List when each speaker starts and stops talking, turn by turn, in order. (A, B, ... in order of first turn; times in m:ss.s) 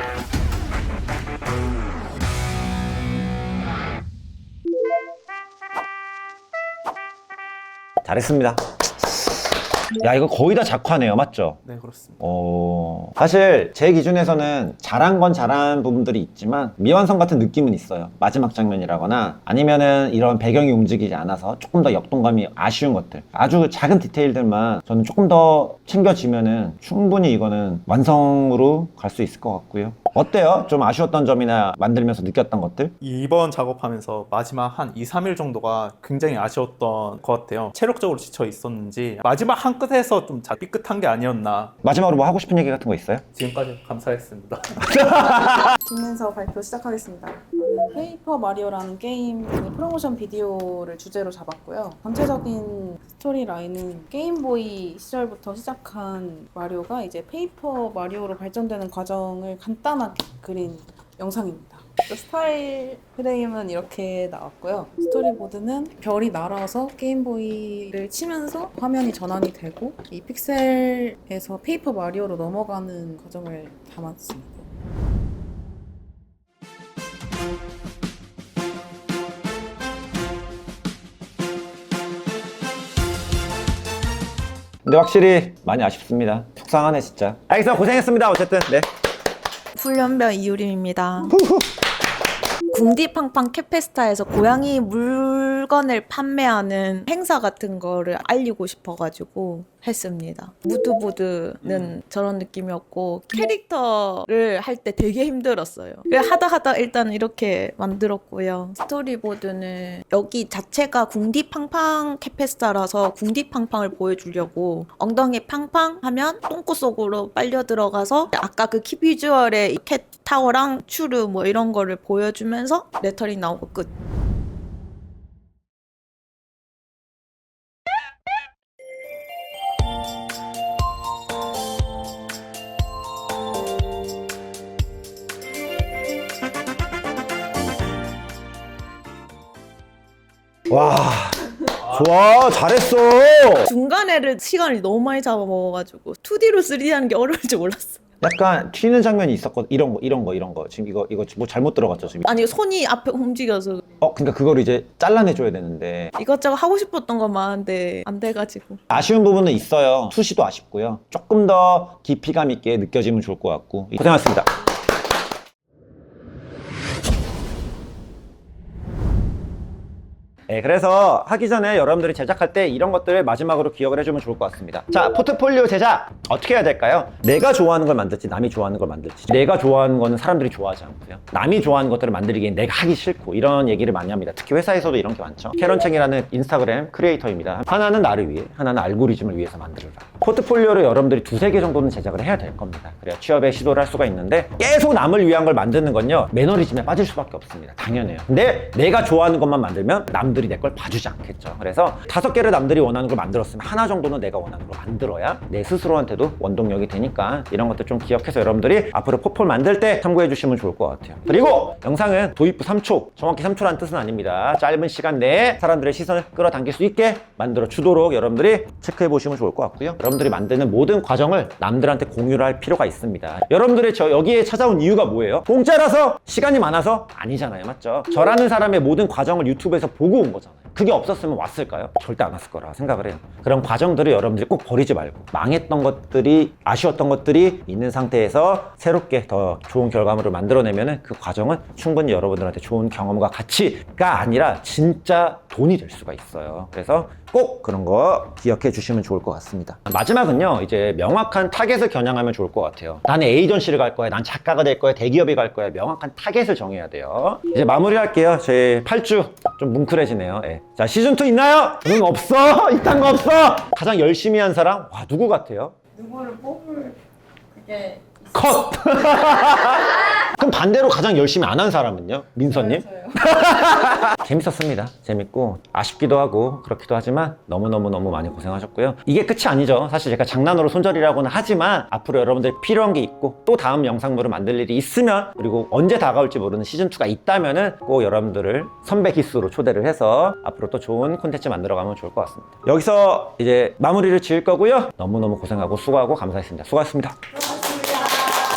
0:08.0-0:08.6 A
0:10.0-0:11.6 A
0:11.6-0:12.2 B
0:12.2-0:32.9 A
0:33.0-0:41.7 B
0:41.8-0:43.2 A
0:43.4-0:45.2 B
0:44.8-0:45.8 A
0:45.8-1:14.6 C
1:24.8-1:28.9 A
1:29.7-1:31.3 D
1:31.3-1:31.7 A
1:32.7-2:03.9 D
2:20.7-2:23.7 A
2:23.6-2:28.0 D
2:28.2-2:32.3 A
2:32.3-2:33.8 D
2:34.0-2:36.1 A
2:36.2-2:38.8 D
2:38.9-2:44.5 A
2:50.5-4:25.8 A
4:28.3-4:57.2 A